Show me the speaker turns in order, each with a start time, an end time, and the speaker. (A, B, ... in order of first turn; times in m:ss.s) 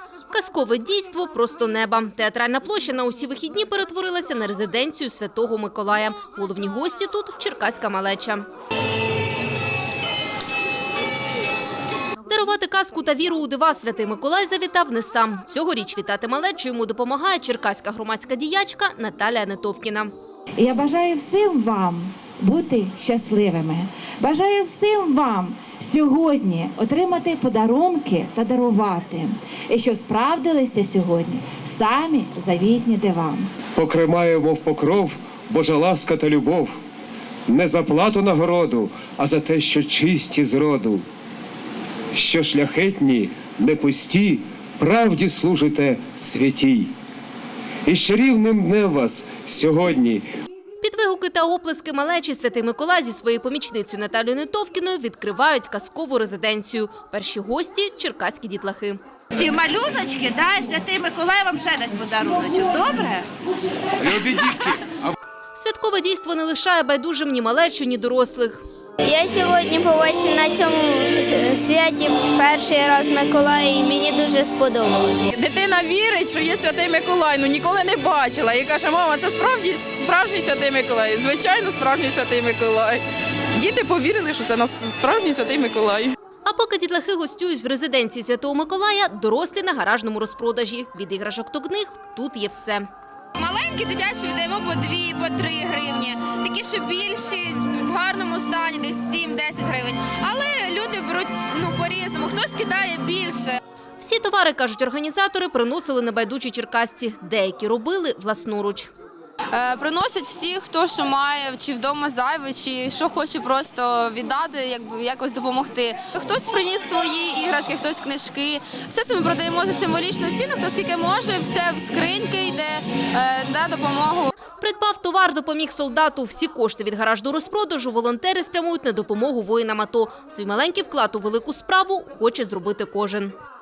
0:00.3-0:08.5 A
0:12.3-0:20.1 A
0:20.6-0:33.5 B
0:33.8-0:36.7 C
0:37.5-0:41.0 C
0:42.1-0:46.9 C
0:47.8-0:50.2 C
0:50.8-0:59.0 A
0:59.4-1:03.2 D
1:04.1-1:05.0 C
1:05.6-1:08.6 A
1:09.0-1:15.2 E
1:15.4-1:23.0 F
1:23.6-1:26.1 F
1:26.4-1:32.9 A
1:33.4-1:43.6 G
1:44.0-1:48.9 A
1:49.5-2:04.3 G
2:04.6-2:13.3 A